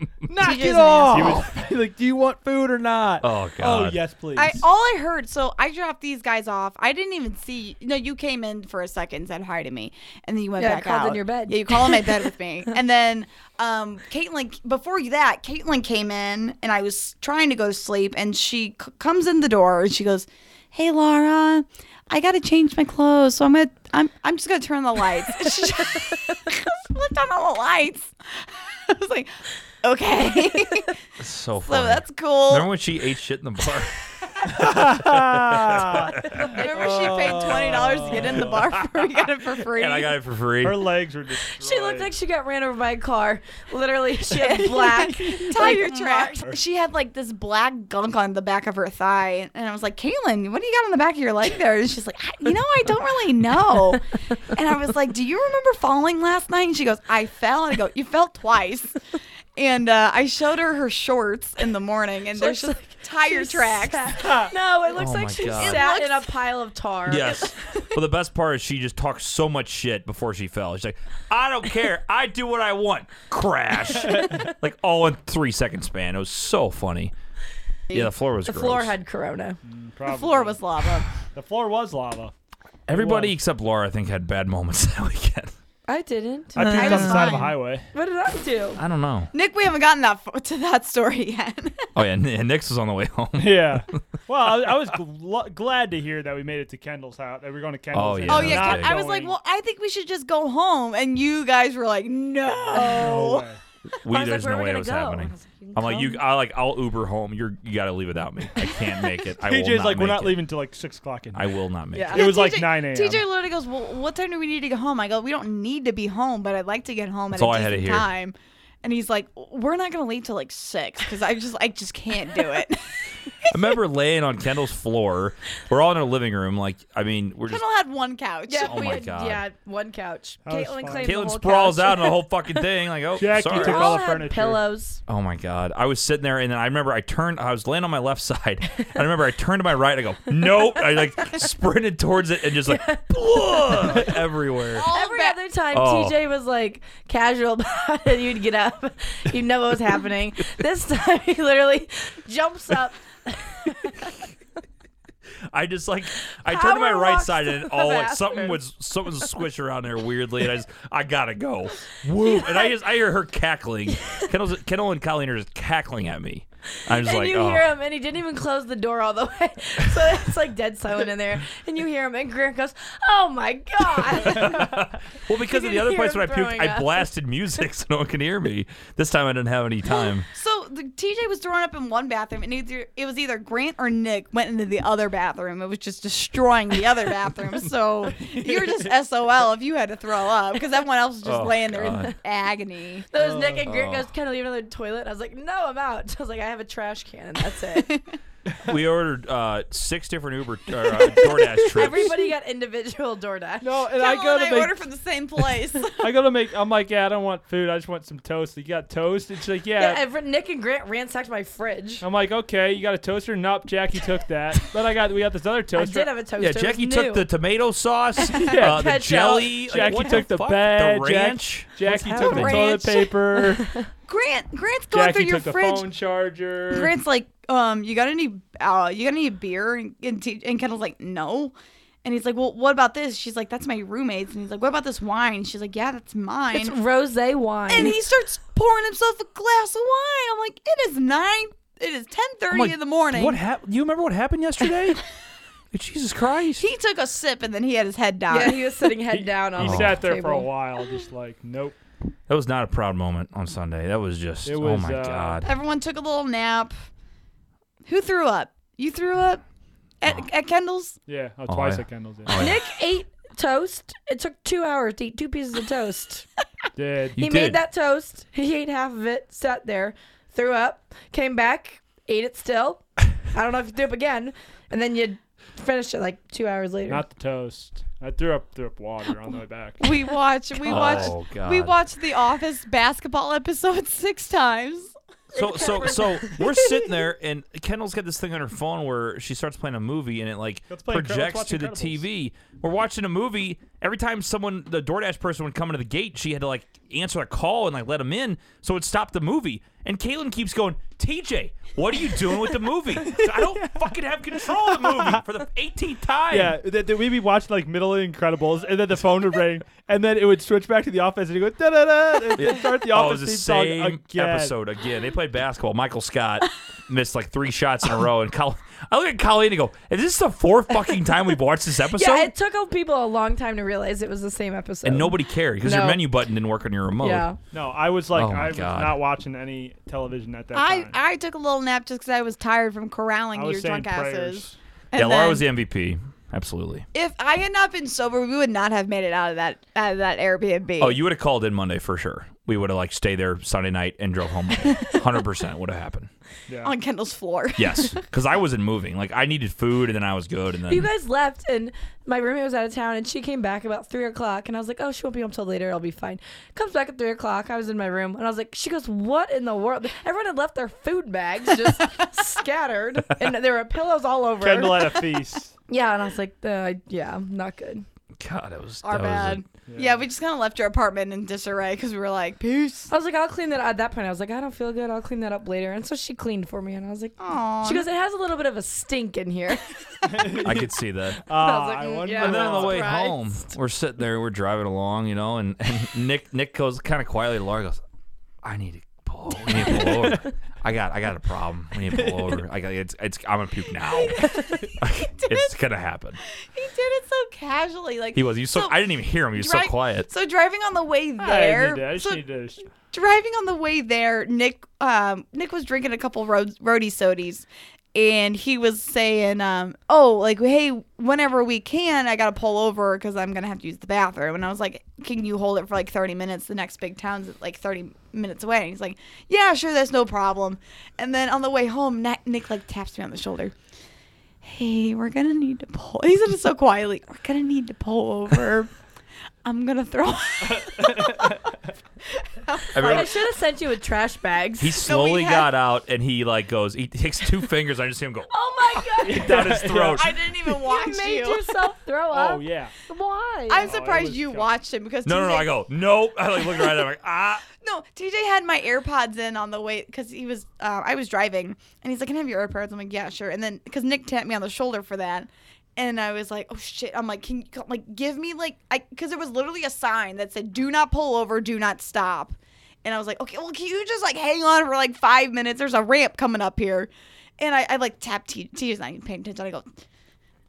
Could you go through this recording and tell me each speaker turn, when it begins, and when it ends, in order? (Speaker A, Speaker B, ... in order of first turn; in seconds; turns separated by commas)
Speaker A: 0.2-4.6, Speaker B: 0.4-1.4, Speaker C: 1.1-1.5, Speaker C: 3.2-4.0, Speaker B: 4.3-31.0, Speaker D: 10.6-12.2, Speaker C: 31.2-36.5, Speaker B: 31.6-32.7, Speaker A: 34.4-38.7, Speaker B: 36.4-40.1, Speaker D: 36.4-37.0, Speaker C: 39.7-40.8, Speaker A: 40.6-42.1, Speaker D: 41.6-46.2, Speaker B: 44.3-59.0, Speaker A: 45.7-46.6, Speaker B: 59.5-64.4, Speaker D: 62.4-67.5, Speaker A: 64.2-64.5, Speaker C: 64.9-65.9, Speaker B: 65.6-66.3, Speaker C: 67.1-77.1, Speaker C: 77.9-78.9, Speaker D: 78.4-79.6, Speaker A: 79.6-80.6, Speaker B: 80.1-81.1, Speaker A: 81.2-82.3, Speaker C: 82.9-85.5, Speaker A: 82.9-83.3, Speaker D: 85.9-88.8, Speaker A: 86.5-87.9, Speaker B: 86.6-87.5, Speaker C: 88.8-89.3, Speaker B: 89.3-91.9, Speaker C: 91.9-94.0, Speaker A: 93.4-99.3, Speaker C: 97.9-99.0, Speaker B: 98.3-103.5, Speaker D: 102.7-103.2, Speaker A: 102.7-103.6, Speaker C: 103.9-110.4, Speaker D: 104.1-106.2, Speaker A: 109.4-111.5, Speaker C: 111.3-112.3, Speaker D: 111.9-112.2, Speaker A: 112.0-113.2, Speaker B: 112.1-123.5, Speaker C: 117.3-118.1, Speaker C: 123.5-127.6, Speaker B: 127.5-128.9, Speaker D: 128.5-132.3, Speaker C: 128.6-129.4, Speaker A: 130.4-131.2, Speaker C: 131.0-134.0, Speaker A: 133.2-134.6, Speaker D: 133.4-135.0, Speaker C: 135.1-144.9, Speaker D: 142.7-144.1, Speaker B: 144.7-145.4, Speaker D: 144.9-154.2, Speaker C: 145.7-146.2, Speaker C: 155.5-167.7, Speaker D: 156.4-158.6, Speaker D: 162.3-162.7, Speaker D: 166.9-177.1, Speaker C: 174.1-180.3, Speaker B: 180.0-193.1, Speaker A: 188.2-188.9, Speaker C: 191.2-192.2, Speaker D: 193.1-198.0, Speaker A: 193.1-193.7, Speaker C: 193.6-194.1, Speaker B: 197.7-198.0, Speaker C: 198.6-202.1, Speaker D: 201.1-203.8, Speaker A: 203.6-204.8, Speaker B: 203.9-206.1, Speaker A: 205.9-210.0, Speaker D: 209.8-212.0, Speaker A: 212.0-216.1, Speaker D: 215.7-217.3, Speaker C: 216.4-222.9, Speaker D: 218.2-220.2, Speaker A: 218.4-223.7, Speaker D: 222.2-222.8, Speaker B: 222.2-222.7, Speaker D: 223.4-223.8, Speaker B: 224.1-225.9, Speaker A: 224.9-226.9, Speaker B: 226.7-236.8, Speaker D: 236.5-237.9, Speaker B: 237.7-243.4, Speaker C: 242.5-245.0, Speaker C: 245.7-246.7, Speaker B: 246.6-248.7, Speaker D: 248.3-250.5, Speaker A: 249.1-251.8, Speaker C: 249.6-250.0, Speaker C: 252.3-255.5, Speaker A: 254.4-255.4, Speaker B: 255.4-256.7, Speaker B: 257.8-259.4, Speaker B: 260.0-261.0, Speaker A: 261.1-262.4, Speaker C: 261.5-262.6, Speaker D: 262.4-266.3, Speaker A: 266.8-267.2, Speaker C: 267.2-267.6, Speaker D: 267.2-277.0, Speaker A: 276.9-279.9, Speaker B: 279.8-284.9, Speaker C: 280.6-281.8, Speaker A: 280.7-281.1, Speaker C: 285.3-306.6, Speaker D: 285.3-286.4, Speaker A: 290.7-292.0, Speaker A: 303.0-303.9, Speaker A: 304.4-305.2, Speaker A: 306.3-314.6, Speaker C: 312.4-322.3, Speaker D: 321.9-326.0, Speaker C: 324.8-327.3, Speaker D: 327.0-327.4, Speaker A: 327.5-330.9, Speaker C: 328.1-329.0, Speaker B: 330.5-335.4, Speaker A: 333.3-334.6, Speaker C: 334.9-336.9, Speaker B: 336.9-341.0, Speaker C: 340.8-346.1, Speaker A: 346.5-346.7, Speaker B: 346.6-348.0, Speaker C: 347.6-350.9, Speaker D: 350.7-365.0, Speaker A: 364.4-365.5, Speaker D: 365.7-367.9, Speaker C: 368.2-369.4, Speaker B: 368.8-372.9, Speaker A: 369.7-370.1, Speaker D: 372.9-380.2, Speaker B: 377.2-377.9, Speaker A: 380.1-382.9, Speaker C: 380.3-381.2, Speaker D: 381.3-383.1, Speaker C: 382.1-387.8, Speaker C: 388.4-396.2, Speaker A: 389.5-390.1, Speaker A: 391.9-392.4, Speaker B: 393.9-395.5, Speaker B: 396.3-398.8, Speaker C: 398.1-400.1, Speaker B: 399.3-402.2, Speaker A: 401.2-402.7, Speaker B: 402.9-423.5, Speaker B: 424.4-428.7, Speaker B: 429.4-431.4, Speaker A: 430.4-431.5, Speaker B: 432.2-433.2, Speaker C: 432.7-433.1, Speaker D: 432.8-434.8, Speaker C: 434.6-438.3, Speaker B: 434.8-435.5, Speaker D: 438.3-439.4, Speaker C: 438.8-440.1, Speaker A: 439.0-440.1, Speaker B: 439.9-441.7, Speaker D: 440.6-443.7, Speaker A: 442.1-442.7, Speaker B: 443.5-445.6, Speaker A: 443.6-444.5, Speaker C: 445.0-447.4, Speaker B: 446.4-446.8, Speaker B: 447.5-469.7